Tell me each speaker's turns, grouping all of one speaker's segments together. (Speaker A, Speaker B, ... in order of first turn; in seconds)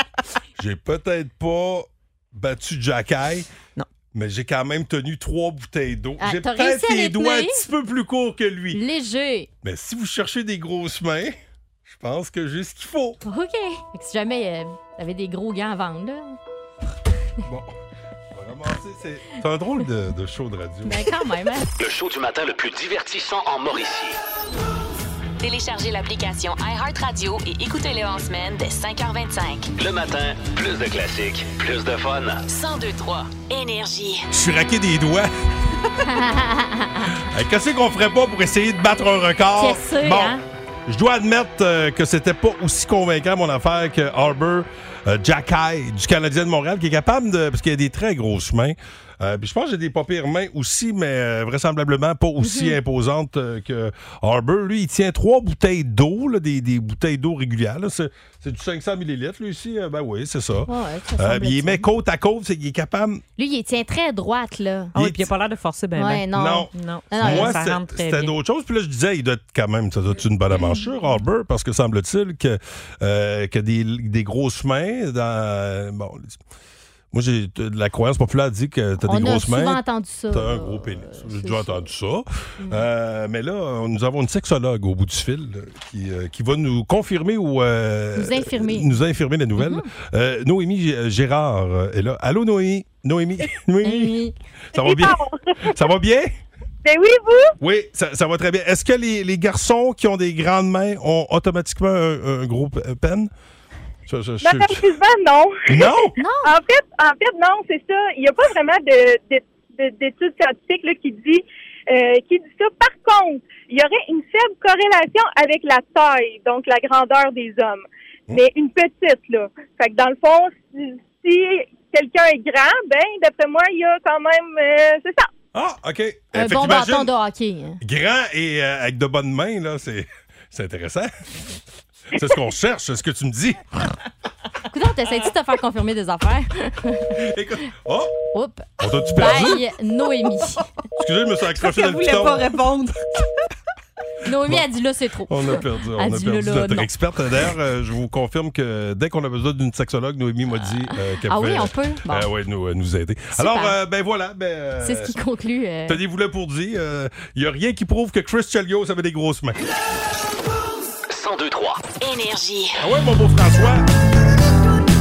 Speaker A: 0.6-3.5, 4.1-8.8, 9.6-13.2, 17.4-17.7, 18.3-21.1, 34.3-35.3, 37.2-40.4, 40.9-63.2, 64.9-65.3, 66.3-76.4, 77.1-94.2, 94.7-96.3, 97.6-103.3, 104.1-104.9, 105.7-106.1, 125.5-127.1, 127.8-131.1, 132.1-133.8, 137.2-138.1, 138.8-139.6, 141.0-142.7, 145.3-155.1, 155.9-159.6, 162.8-163.8
Speaker B: 6.2-7.6, 8.7-9.5, 13.2-16.4, 20.9-21.7, 36.0-37.1, 39.5-40.4, 52.4-52.8, 60.7-61.9, 63.4-64.9, 66.0-67.6, 79.0-81.9, 82.6-82.8, 88.2-89.0, 89.6-89.9, 93.8-94.3, 106.2-106.5, 126.3-127.8, 134.7-137.2, 138.3-140.6, 144.2-146.9, 151.3-152.3, 153.3-153.7, 154.8-156.0
Speaker C: 21.8-24.2, 29.8-32.4, 161.1-161.8
Speaker D: 25.4-29.7, 32.5-34.3, 162.0-162.8
Speaker E: 64.9-68.3, 141.6-143.0
Speaker F: 94.8-95.7, 96.8-97.5, 104.4-105.9, 106.4-125.3